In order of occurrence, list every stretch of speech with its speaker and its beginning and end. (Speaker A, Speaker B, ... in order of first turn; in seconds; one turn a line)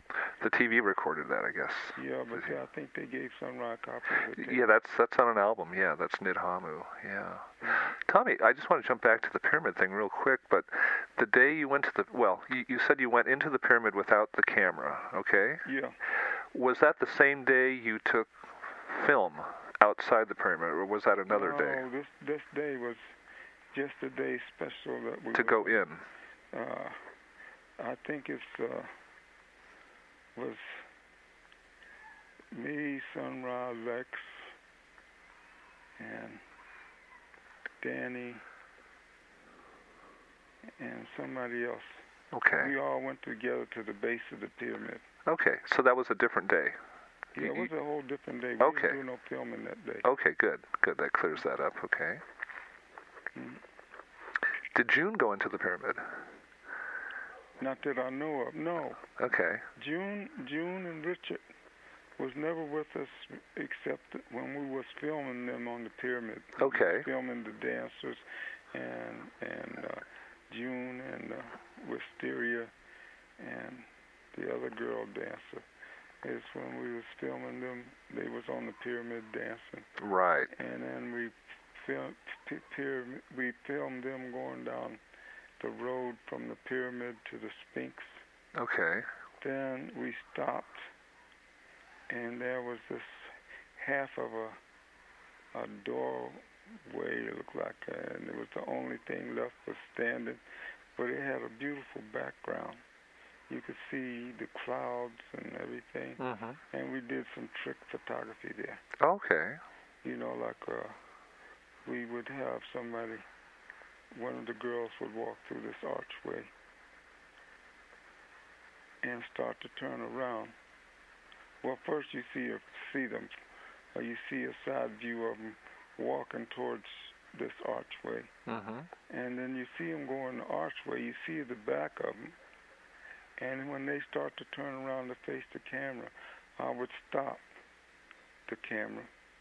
Speaker A: 0.2-2.5
Speaker B: 1.9-4.8
Speaker A: 4.3-15.6
Speaker B: 7.6-8.0
Speaker B: 15.6-16.0
Speaker A: 16.2-21.8
Speaker B: 21.3-23.1
Speaker B: 23.7-25.8
Speaker A: 25.3-26.1
Speaker B: 26.5-27.0
Speaker B: 27.8-28.9
Speaker B: 30.4-30.9
Speaker B: 32.5-34.5
Speaker B: 36.0-36.4
Speaker B: 37.8-38.5
Speaker B: 40.8-42.0
Speaker A: 42.3-42.7
Speaker B: 42.6-45.1
Speaker A: 45.3-46.8
Speaker A: 47.4-47.7
Speaker B: 47.4-50.1
Speaker A: 48.6-49.0
Speaker A: 50.0-52.2
Speaker B: 53.3-53.6
Speaker A: 54.7-56.2
Speaker B: 57.6-59.1
Speaker A: 59.2-59.7
Speaker B: 59.8-61.4
Speaker B: 62.2-72.7
Speaker A: 66.6-67.1
Speaker B: 73.4-75.7
Speaker B: 76.2-80.0
Speaker A: 80.0-80.5
Speaker B: 80.5-85.0
Speaker B: 85.6-88.2
Speaker A: 88.6-89.1
Speaker B: 89.4-90.9
Speaker B: 92.1-94.6
Speaker B: 95.5-100.4
Speaker B: 101.0-102.8
Speaker B: 103.5-108.8
Speaker A: 106.2-106.6
Speaker A: 109.0-109.6
Speaker B: 110.0-111.0
Speaker B: 111.8-113.3
Speaker B: 114.1-116.5
Speaker B: 119.0-120.5
Speaker B: 121.6-123.3
Speaker B: 123.9-128.3
Speaker A: 128.4-128.9
Speaker B: 129.1-132.3
Speaker B: 133.4-137.5
Speaker B: 138.5-139.1